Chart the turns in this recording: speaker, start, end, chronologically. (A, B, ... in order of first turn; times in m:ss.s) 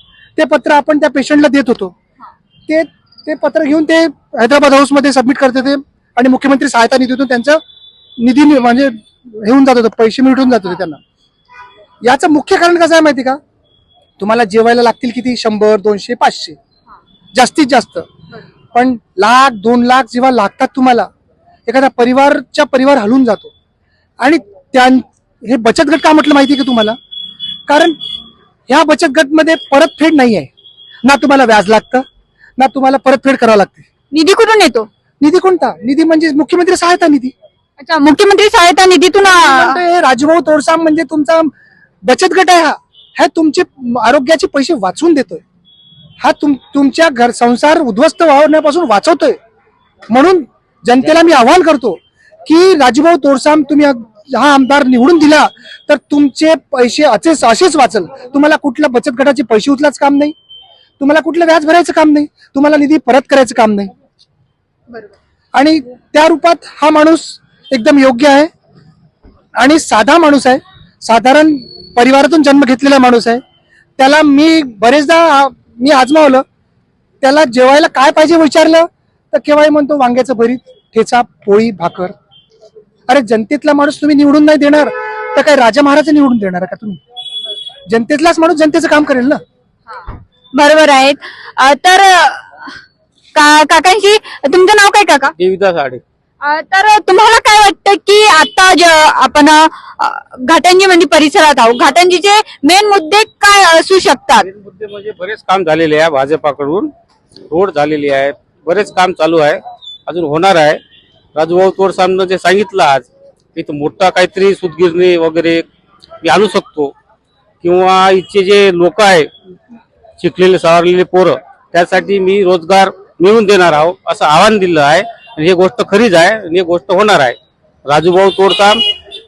0:00.4-0:01.9 A
0:02.7-0:07.6 A
0:08.2-0:11.0 A
0:12.0-0:13.4 A
0:14.2-0:16.6 A
0:17.3-0:18.0 A
0:18.7-0:21.1 A
0:21.6-0:23.5 A
0:24.2-0:27.0 A
0:27.7-0:28.0 A
0:28.7-0:30.5 A
0:31.0-0:32.0 A
0:32.6-0:33.8 A
0:34.1-0:34.9 B
0:35.2-0:37.3 A
0:37.8-0:39.8 B
0:39.3-0:41.5 A
0:42.0-0:45.4 A
0:46.2-0:49.4 A
0:50.1-1:00.3 A
1:01.0-1:03.9 A
1:05.5-1:08.5 A
1:09.6-1:13.4 A
1:14.0-1:16.4 A
1:17.2-1:22.1 A
1:23.1-1:27.0 A
1:27.9-1:29.4 A
1:30.5-1:32.7 B
1:33.3-1:35.3 B
1:35.4-1:36.0 C
1:36.4-1:44.5 B
1:44.5-1:46.9 C
1:47.5-1:50.8 C
1:51.3-1:55.7 C
1:56.2-1:56.9 C
1:57.6-1:59.3 C
2:00.2-2:08.8 C